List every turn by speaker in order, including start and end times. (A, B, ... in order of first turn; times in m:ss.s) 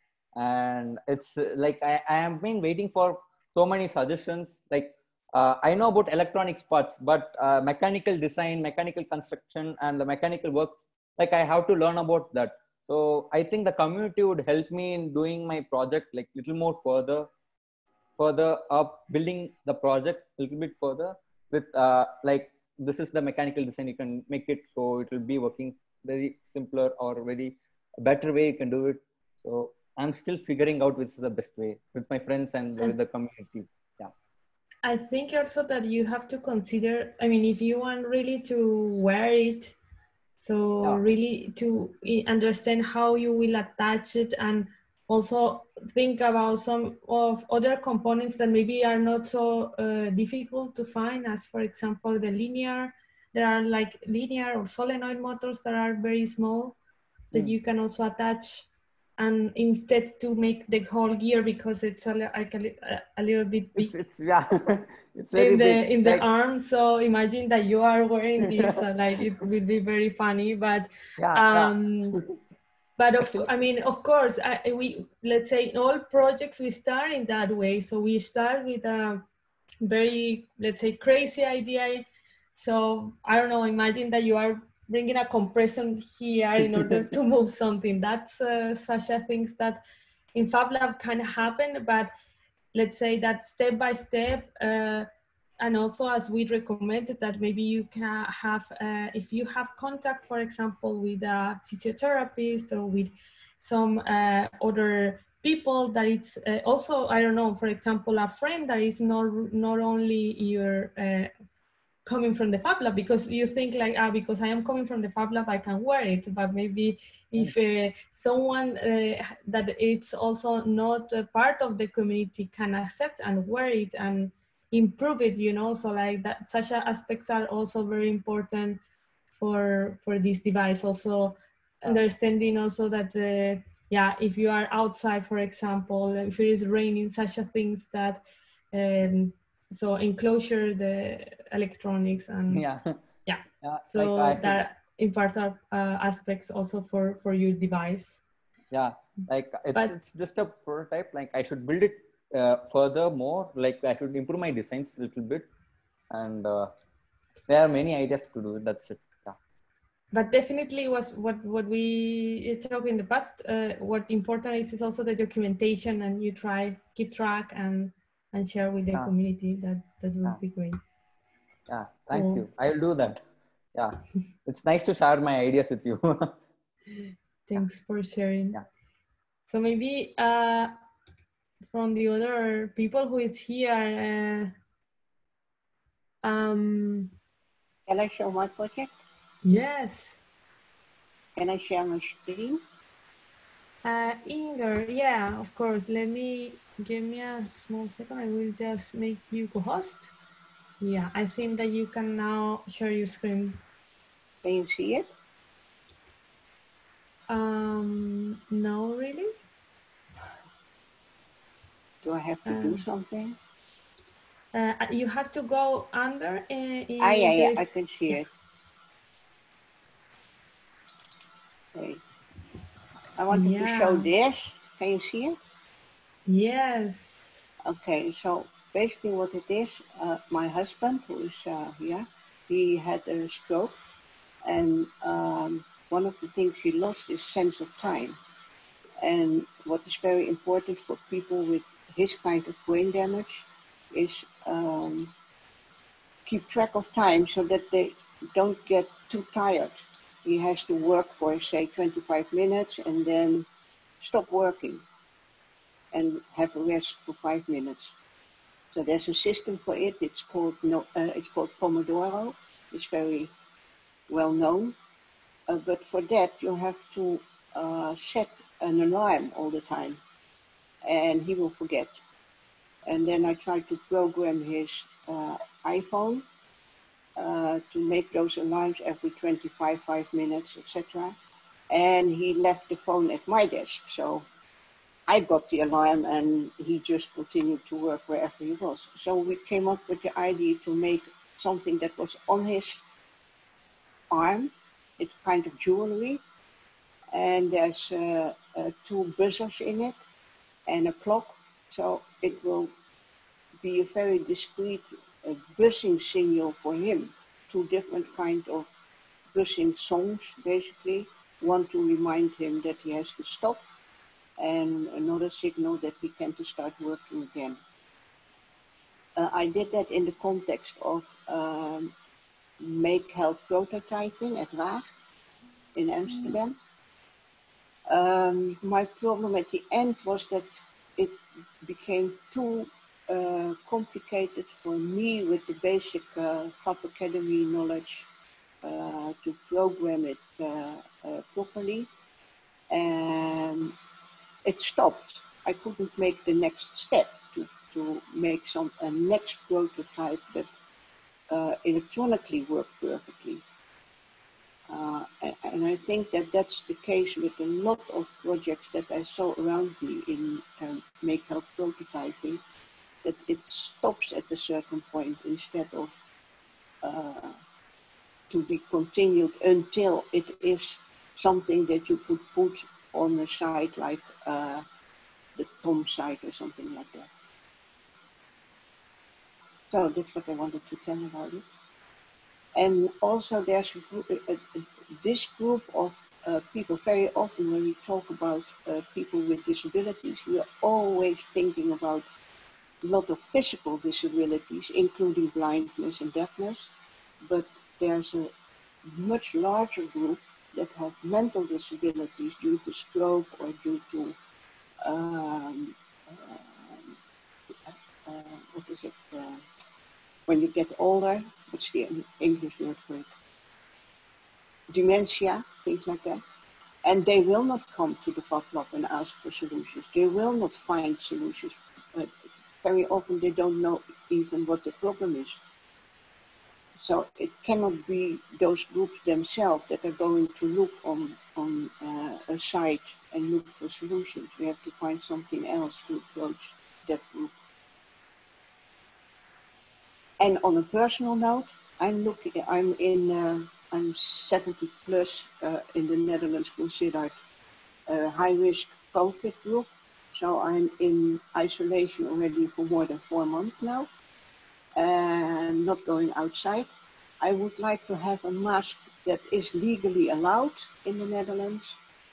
0:00.4-0:17.3 A
0:18.2-0:34.1 A
0:34.8-0:39.8 B
0:40.4-0:56.8 B
0:57.3-0:58.7 B
0:59.2-1:04.0 B
1:03.8-1:06.2 A
1:05.4-1:12.2 B
1:08.4-1:08.8 A
1:11.2-1:12.3 A
1:13.0-1:19.2 B
1:13.2-1:13.5 A
1:19.8-1:29.8 B
1:30.4-1:32.1 B
1:32.7-1:35.1 B
1:35.6-1:51.3 B
1:52.0-2:08.8 B
2:09.4-2:22.6 B
2:22.5-2:23.0 A
2:23.3-2:28.2 B
2:23.6-2:24.6 A
2:28.7-2:35.5 A
2:36.1-2:36.7 A
2:37.5-2:39.4 A
2:40.1-2:50.8 B
2:51.7-2:53.2 A
2:52.1-2:52.5 B
2:53.8-2:56.4 A
2:57.5-2:58.6 B
2:59.5-3:00.8 B
3:01.7-3:04.5 B
3:06.2-3:07.1 B
3:07.9-3:09.0 C
3:09.4-3:10.2 B
3:11.4-3:12.6 C
3:13.8-3:20.1 B
3:20.8-3:23.6 B
3:24.4-3:25.1 C
3:27.3-3:29.3 B
3:32.0-3:33.4 C
3:32.5-3:32.8 B
3:34.5-3:38.2 B
3:37.0-3:38.3 C
3:41.8-3:42.0 C
3:43.2-3:45.4 C
3:43.3-3:44.1 B
3:46.3-3:47.3 B
3:47.6-3:53.8 C
3:54.4-3:58.2 C
3:59.0-4:05.1 C
4:06.3-4:13.5 C
4:14.0-4:14.8 C
4:15.9-4:17.9 C
4:18.7-4:23.3 C
4:24.1-4:24.8 C
4:25.5-4:30.0 C
4:30.8-4:32.0 C
4:32.9-4:36.2 C
4:37.2-4:41.2 C
4:41.7-4:44.3 C
4:45.1-4:52.8 C
4:54.1-4:56.2 C
4:57.1-5:00.0 C
5:00.7-5:02.7 C
5:03.6-5:08.7 C
5:09.3-5:13.6 C
5:14.4-5:17.6 C
5:19.2-5:21.9 C
5:22.6-5:24.9 C
5:25.8-5:26.6 C
5:27.9-5:38.1 C
5:38.6-5:41.9 C
5:42.7-5:43.8 C
5:44.4-5:50.5 C
5:51.3-5:53.4 C
5:54.7-6:02.4 C
6:03.0-6:05.9 C
6:06.8-6:07.4 C
6:08.3-6:14.6 C
6:15.4-6:17.1 C
6:19.7-6:21.4 C
6:22.6-6:32.1 C
6:32.8-6:36.7 C
6:37.2-6:38.3 C
6:38.8-6:44.2 C
6:44.8-6:47.0 C
6:47.5-6:49.4 C
6:50.3-6:53.1 C
6:54.7-6:56.2 C
6:56.8-7:05.4 C
7:06.8-7:17.3 C
7:20.2-7:27.2 C
7:27.9-7:33.9 C
7:34.8-7:36.7 C
7:37.2-7:41.8 C